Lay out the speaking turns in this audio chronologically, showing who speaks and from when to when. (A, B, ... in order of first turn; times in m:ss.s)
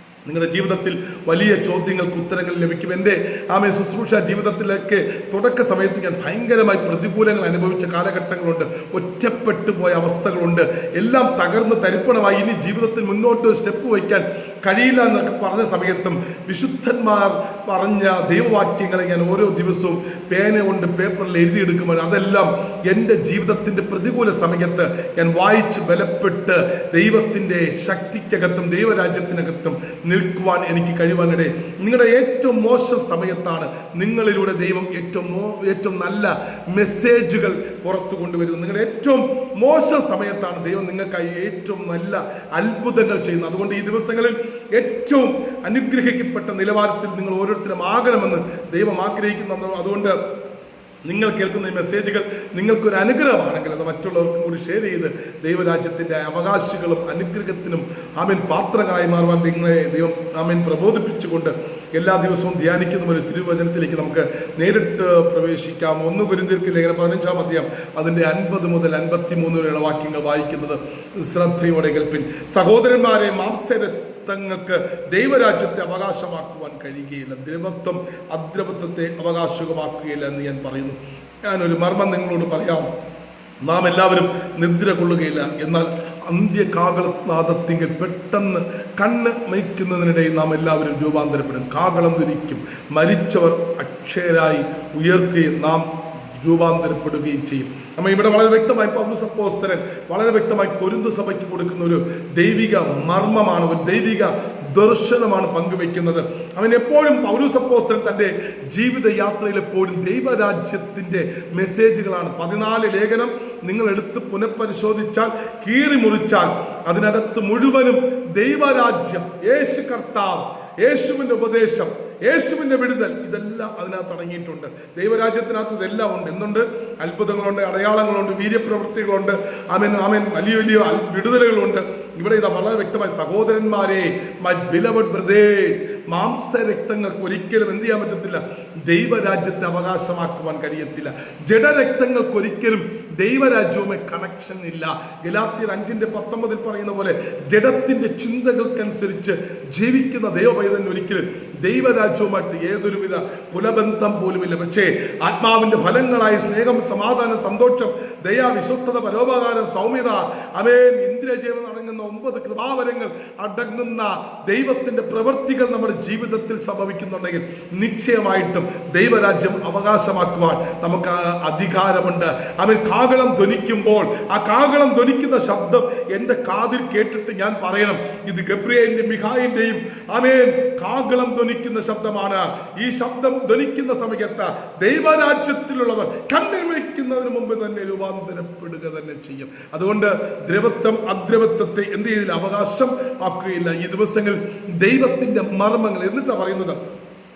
0:00.2-0:50.2 A
0:51.1-1:22.9 A
1:23.6-3:16.8 A